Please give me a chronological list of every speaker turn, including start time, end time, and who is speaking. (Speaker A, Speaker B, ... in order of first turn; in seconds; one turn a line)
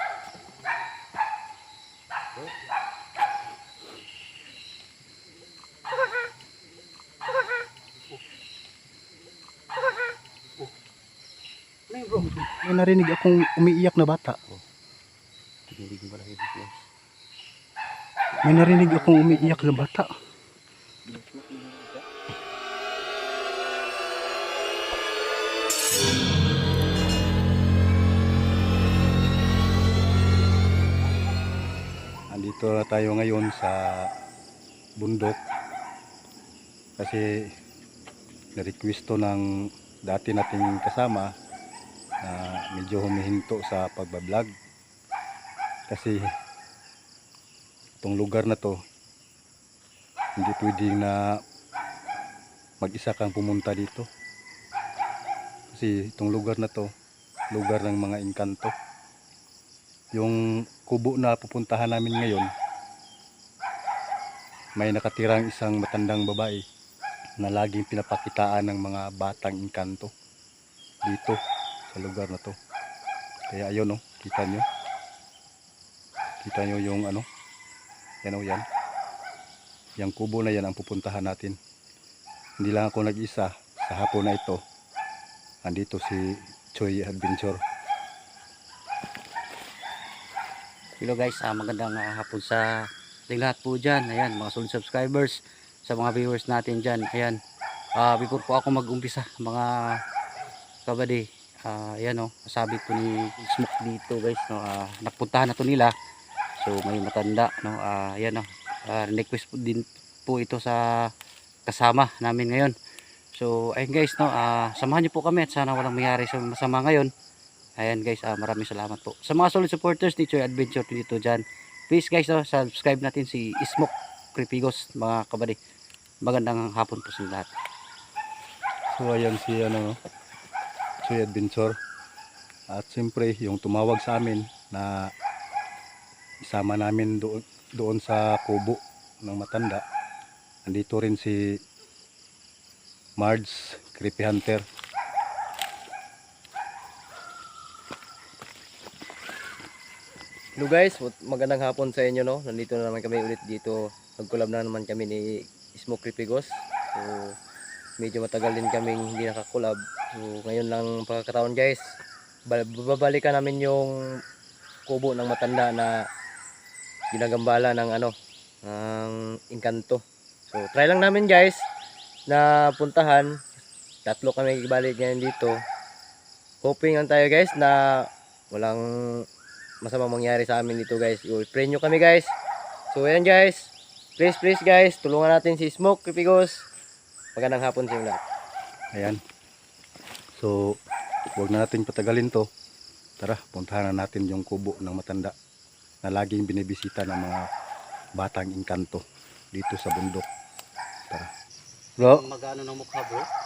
Speaker A: 11.9-12.5
Speaker B: 12.6-14.4
Speaker A: 15.7-16.8
Speaker A: 18.4-19.8
Speaker B: 18.4-20.1
Speaker A: 21.0-22.0
Speaker B: 32.3-34.1
Speaker B: 35.0-35.4
Speaker B: 37.0-37.2
Speaker B: 38.5-39.4
Speaker B: 40.0-41.3
Speaker B: 42.2-44.5
Speaker B: 45.9-46.2
Speaker B: 48.0-48.8
Speaker B: 50.4-51.3
Speaker B: 52.8-54.1
Speaker B: 55.7-56.9
Speaker B: 57.5-58.7
Speaker B: 60.1-62.5
Speaker B: 64.8-66.6
Speaker B: 67.4-70.1
Speaker B: 71.0-71.4
Speaker B: 71.9-72.5
Speaker B: 73.5-74.6
Speaker B: 76.4-77.2
Speaker B: 78.2-78.6
Speaker B: 80.0-81.5
Speaker B: 82.6-84.6
Speaker B: 85.6-87.6
Speaker A: 91.0-92.7
Speaker A: 93.3-97.4
Speaker A: 98.0-99.7
Speaker A: 100.8-105.9
Speaker A: 106.6-110.8
Speaker A: 111.7-112.8
Speaker A: 113.3-117.1
Speaker A: 117.8-125.6
Speaker A: 126.2-127.5
Speaker B: 128.9-129.9
Speaker B: 131.0-131.7
Speaker B: 132.7-135.1
Speaker B: 136.4-139.8
Speaker B: 140.7-141.3
Speaker B: 143.2-144.6
Speaker C: 150.6-155.2
Speaker C: 155.8-157.3
Speaker C: 158.0-161.8
Speaker C: 162.5-163.9
Speaker C: 164.9-165.9
Speaker C: 167.1-168.1
Speaker C: 168.7-171.6
Speaker C: 172.3-173.4
Speaker C: 174.1-175.6
Speaker C: 176.6-179.2
Speaker C: 179.8-182.3
Speaker C: 182.9-186.7
Speaker C: 187.3-188.2
Speaker B: 190.3-190.8
Speaker B: 191.3-192.4
Speaker B: 193.2-195.3
Speaker B: 196.0-197.4
Speaker B: 198.2-200.3
Speaker B: 202.0-202.2
Speaker A: 202.0-203.3